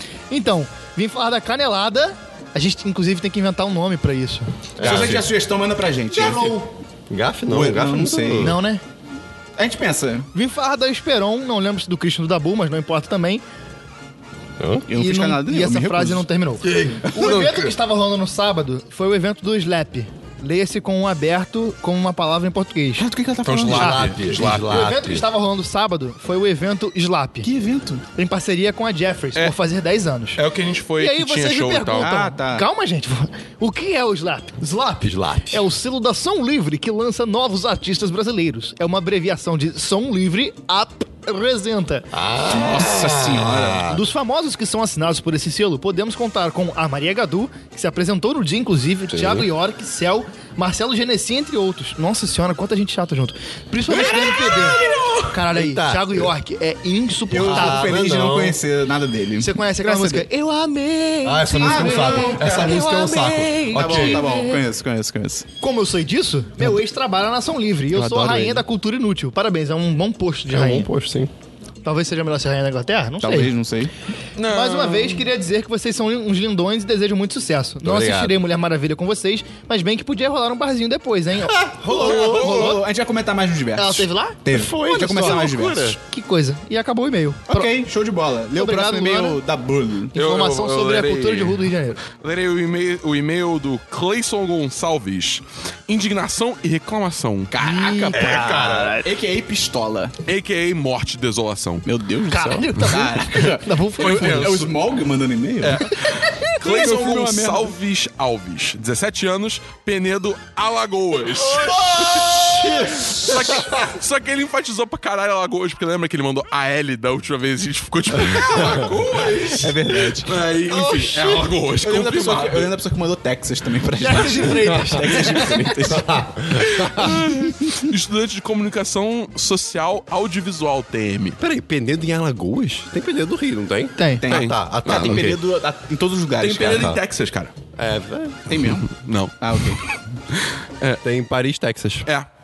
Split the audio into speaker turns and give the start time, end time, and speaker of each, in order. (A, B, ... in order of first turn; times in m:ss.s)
0:00.3-0:04.5 A
0:04.8-0:05.3 B
0:04.8-0:06.6 C
0:06.1-0:06.7 A
0:07.1-0:08.6 B
0:07.5-0:08.6 C
0:08.4-0:08.8 A
0:09.6-0:10.3 C
0:10.3-0:13.4 A
0:14.6-0:14.9 B
0:14.9-0:16.2 C
0:15.0-0:23.1 A
0:16.6-0:17.4 B
0:17.1-0:17.7 D
0:23.0-0:24.0 C
0:23.4-0:24.9 D
0:23.7-0:25.2 B
0:23.8-0:27.5 A
0:27.4-0:28.0 C
0:28.2-0:30.4 A
0:30.3-0:32.1 D
0:31.0-0:42.1 A
0:32.0-0:32.6 C
0:35.0-0:35.6 B
0:42.1-0:44.0 B
0:42.5-0:43.8 C
0:43.9-0:58.0 A
0:49.1-0:49.5 B
0:53.9-0:55.1 C
0:54.6-0:55.1 D
0:55.5-0:56.3 B
0:57.3-1:00.3 C
0:57.4-0:58.6 B
0:59.4-1:04.6 A
1:01.2-1:04.2 B
1:01.5-1:03.0 C
1:03.6-1:05.5 C
1:05.6-1:10.9 A
1:07.9-1:08.6 B
1:10.5-1:11.3 B
1:11.8-1:13.5 A
1:13.2-1:13.9 C
1:14.4-1:15.3 D
1:14.4-1:21.5 A
1:17.8-1:18.4 B
1:21.4-1:22.8 B
1:21.8-1:25.9 C
1:21.9-1:22.8 D
1:23.8-1:27.7 A
1:24.5-1:26.0 B
1:27.5-1:30.1 C
1:28.6-1:29.4 A
1:30.1-1:32.0 A
1:30.1-1:37.5 D
1:37.5-1:40.2 C
1:37.6-1:39.0 A
1:38.1-1:39.0 D
1:40.2-1:41.8 D
1:41.8-1:45.9 C
1:42.3-1:44.5 A
1:44.0-1:44.7 D
1:45.6-2:02.7 D
1:46.6-1:47.7 C
1:51.5-1:53.8 B
1:58.3-1:58.7 C
1:58.5-1:58.8 B
1:59.3-2:06.1 C
2:04.0-2:05.7 A
2:05.8-2:07.3 B
2:06.5-2:11.4 D
2:11.4-2:15.4 B
2:14.0-2:14.2 A
2:14.2-2:16.9 C
2:14.3-2:15.4 D
2:16.4-2:17.5 D
2:16.6-2:17.0 B
2:17.8-2:18.4 B
2:18.5-2:19.8 C
2:18.6-2:19.7 D
2:20.3-2:21.0 D
2:21.0-2:22.1 B